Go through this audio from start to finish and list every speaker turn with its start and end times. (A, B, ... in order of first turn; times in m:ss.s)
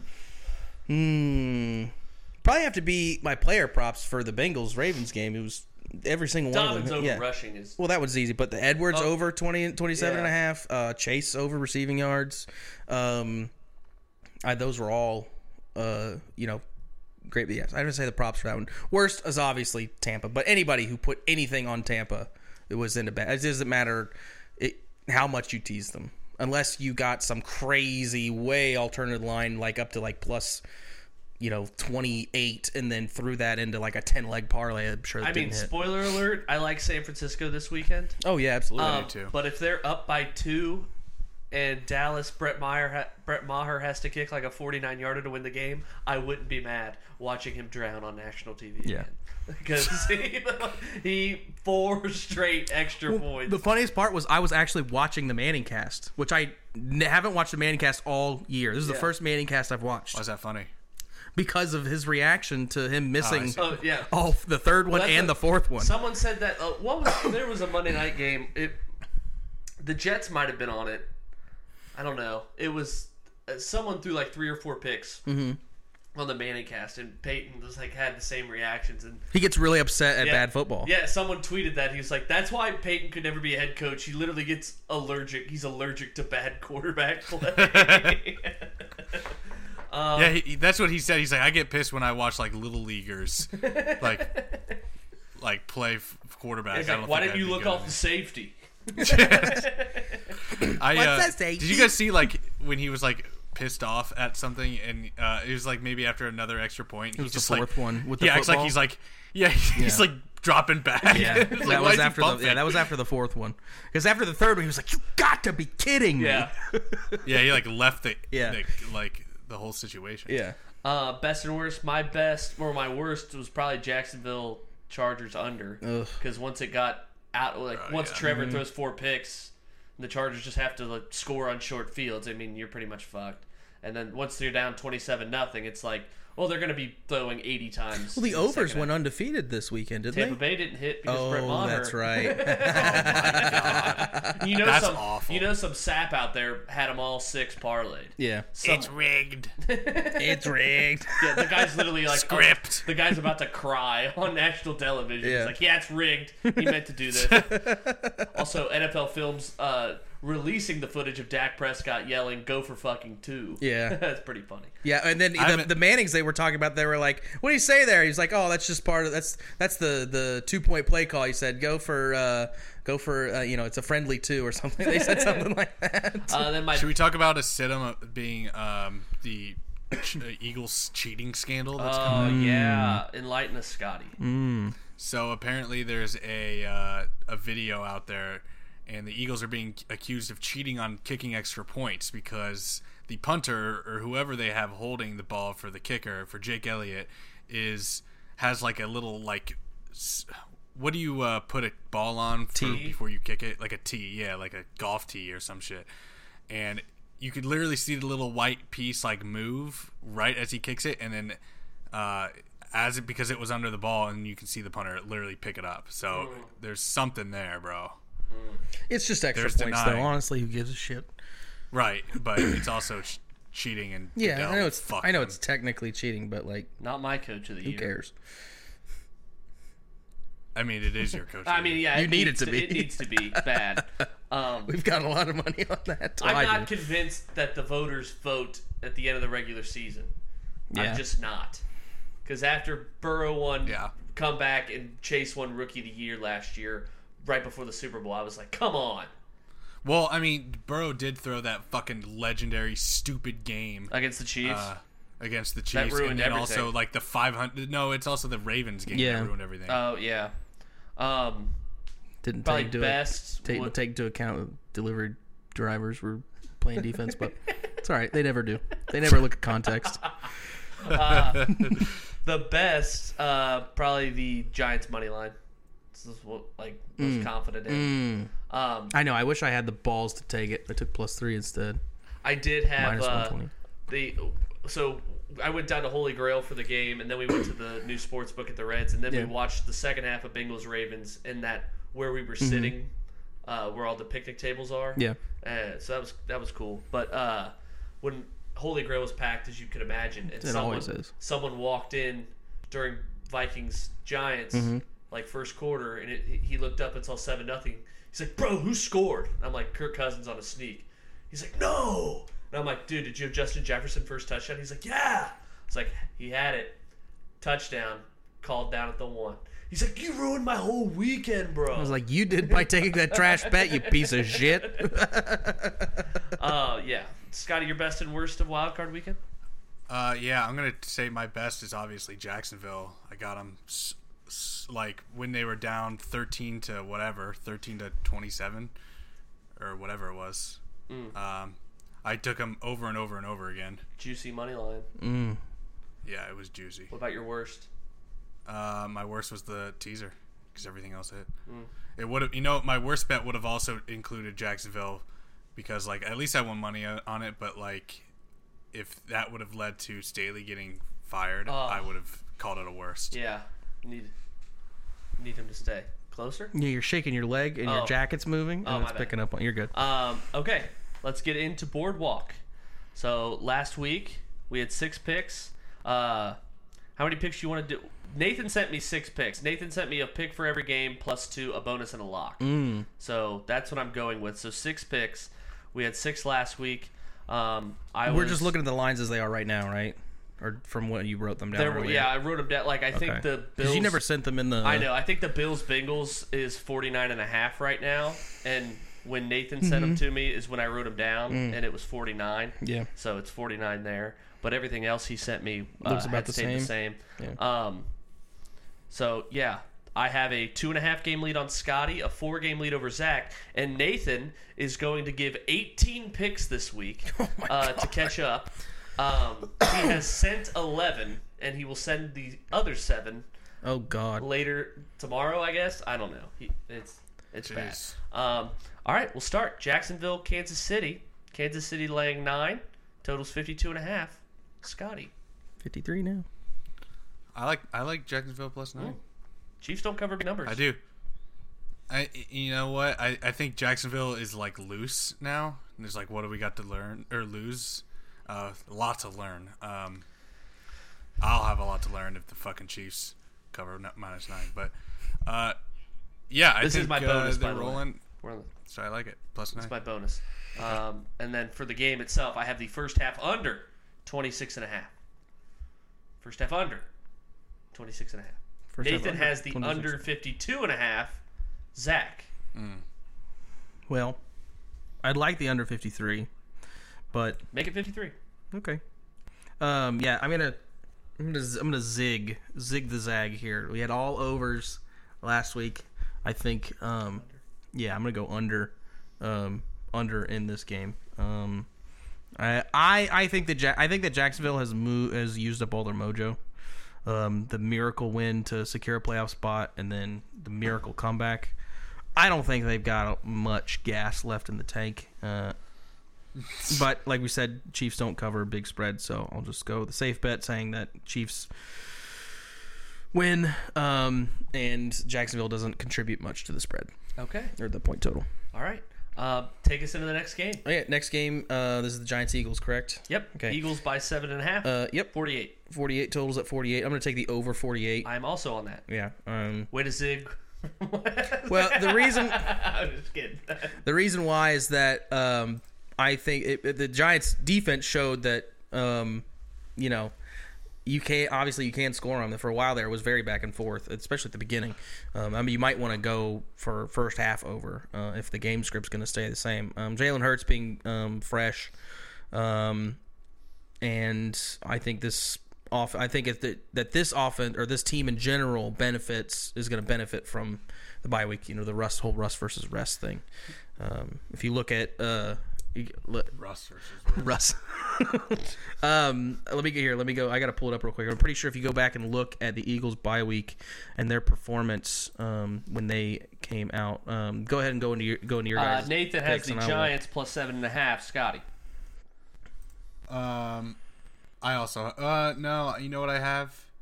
0:00.9-0:07.3 A
0:06.5-0:07.8 B
0:07.8-0:13.5 A
0:08.9-0:09.2 B
0:09.9-0:10.3 B
0:14.4-0:16.6 A
0:17.2-0:30.6 A
0:31.4-0:35.7 A
0:35.2-0:38.2 B
0:38.2-0:39.1 A
0:38.8-0:40.9 B
0:38.8-0:39.3 C
0:41.5-0:53.6 B
0:53.1-1:00.2 A
0:58.8-0:59.1 B
1:00.1-1:00.7 C
1:01.4-1:06.0 A
1:03.2-1:03.6 C
1:03.6-1:04.1 B
1:04.9-1:08.8 B
1:09.8-1:11.1 B
1:12.0-1:15.2 B
1:15.3-1:15.6 A
1:16.2-1:19.2 B
1:19.3-1:20.9 A
1:20.2-1:29.2 B
1:27.5-1:28.2 C
1:29.9-1:30.4 B
1:30.2-1:34.4 C
1:33.6-1:34.7 B
1:35.4-1:38.0 C
1:36.7-1:40.4 B
1:39.0-1:39.7 C
1:39.0-1:39.5 A
1:40.5-1:52.9 C
1:40.6-1:42.0 A
1:47.2-1:48.8 A
1:49.8-1:50.1 A
1:51.0-1:52.0 B
1:51.1-1:57.2 A
1:56.2-1:56.5 B
1:57.2-2:00.4 C
1:58.3-1:58.6 A
2:00.3-2:00.6 A
2:00.8-2:18.9 B
2:05.8-2:06.2 A
2:07.8-2:08.2 C
2:08.2-2:08.6 A
2:18.1-2:20.4 A
2:20.1-2:28.9 B
2:21.0-2:24.5 A
2:22.7-2:25.5 C
2:28.2-2:28.5 A
2:28.6-2:29.5 C
2:29.6-2:30.5 B
2:30.2-2:31.5 A
2:31.2-2:37.7 B
2:32.1-2:32.9 C
2:35.2-2:35.6 A
2:36.5-2:38.3 A
2:38.3-2:44.7 B
2:43.6-2:44.0 A
2:44.8-2:56.6 A
2:45.4-2:45.7 C
2:54.8-2:55.5 B
2:56.3-2:56.9 B
2:56.7-3:02.4 C
3:01.8-3:04.2 B
3:02.1-3:03.0 A
3:04.2-3:04.8 A
3:05.0-3:25.9 C
3:22.6-3:22.9 A
3:22.6-3:23.0 B
3:26.5-3:31.4 C
3:31.9-3:38.0 C
3:36.1-3:36.5 B
3:38.3-3:38.6 B
3:38.9-3:41.1 A
3:39.3-3:40.2 C
3:41.7-3:45.4 C
3:44.2-3:46.7 A
3:46.8-3:47.9 B
3:47.6-3:48.1 A
3:50.6-3:51.9 C
3:51.4-3:54.7 B
3:51.9-3:54.0 A
3:54.7-3:56.7 A
3:56.2-4:00.1 B
4:00.7-4:01.0 A
4:00.7-4:01.6 B
4:02.2-4:09.1 B
4:03.7-4:03.9 C
4:09.8-4:19.8 C
4:13.9-4:14.7 B
4:15.7-4:16.7 B
4:18.9-4:19.3 A
4:19.7-4:20.3 B
4:21.0-4:21.6 B
4:22.2-4:30.0 A
4:22.4-4:23.7 B
4:30.8-4:35.4 B
4:35.9-4:38.0 B
4:37.0-4:38.3 A
4:38.5-4:39.0 B
4:38.9-4:41.8 A
4:42.2-4:43.4 B
4:42.8-4:43.5 A
4:43.9-4:52.9 B
4:52.4-4:52.8 A
4:53.4-5:16.8 B
5:00.4-5:01.1 A
5:04.5-5:04.8 A
5:17.4-5:22.0 B
5:21.7-5:26.0 A
5:22.5-5:24.9 B
5:26.3-5:29.2 B
5:29.9-5:38.7 C
5:39.6-5:40.6 C
5:40.9-5:41.1 B
5:41.1-5:43.8 C
5:44.0-5:44.9 B
5:45.0-5:45.4 A
5:46.0-5:46.9 C
5:46.9-5:47.7 B
5:48.5-5:51.3 C
5:52.0-5:55.0 C
5:55.6-5:58.1 C
5:58.7-6:03.2 C
6:01.5-6:01.9 B
6:03.1-6:04.1 B
6:05.2-6:06.5 B
6:06.5-6:09.7 A
6:07.6-6:08.0 B
6:08.6-6:09.1 B
6:09.7-6:12.4 B
6:13.0-6:16.4 B
6:17.0-6:22.4 B
6:22.4-6:22.9 A
6:23.0-6:28.5 B
6:28.1-6:32.1 A
6:31.5-6:34.0 B
6:32.9-6:34.9 A
6:34.6-6:47.9 B
6:39.6-6:40.0 A
6:41.3-6:41.6 A
6:42.6-6:42.9 A
6:45.8-6:47.4 A
6:48.9-7:03.3 B
6:57.1-6:58.1 A
7:03.6-7:04.3 A
7:04.2-7:15.1 B
7:07.4-7:08.0 C
7:15.6-7:16.3 A
7:17.3-7:19.0 C
7:19.6-7:20.6 B
7:20.5-7:20.8 C
7:21.9-7:30.0 C
7:31.2-7:34.7 C
7:35.2-7:35.6 C
7:36.3-7:38.0 C
7:36.6-7:38.5 B
7:38.7-7:39.7 C
7:39.6-7:44.9 B
7:46.2-7:46.9 B
7:47.7-7:51.2 B
7:48.7-7:50.1 A
7:51.8-7:52.3 B
7:52.5-7:52.8 C
7:53.9-7:54.2 A
7:55.0-7:56.3 A
7:57.1-7:57.4 A
7:57.5-7:58.2 B
7:58.5-7:58.8 A
7:59.6-8:00.6 A
8:01.2-8:11.7 A
8:12.4-8:16.4 A
8:17.0-8:21.6 A
8:22.2-8:25.6 A
8:26.7-8:32.0 A
8:33.1-8:36.9 A
8:37.2-8:37.5 B
8:37.6-8:38.3 A
8:38.5-8:40.6 B
8:40.6-8:43.6 A
8:43.1-8:45.6 B
8:44.6-8:45.1 A
8:45.6-8:48.1 A
8:48.0-8:48.8 B
8:48.9-8:49.7 A
8:49.7-8:53.8 B
8:51.5-8:52.6 A
8:53.8-8:59.2 A
8:59.8-9:00.1 A
9:00.8-9:11.7 A
9:12.3-9:13.0 A
9:13.8-9:23.2 A
9:23.8-9:26.3 A
9:26.3-9:27.4 C
9:27.2-9:39.9 A
9:38.6-9:41.4 B
9:43.1-9:43.8 C
9:44.4-9:46.6 C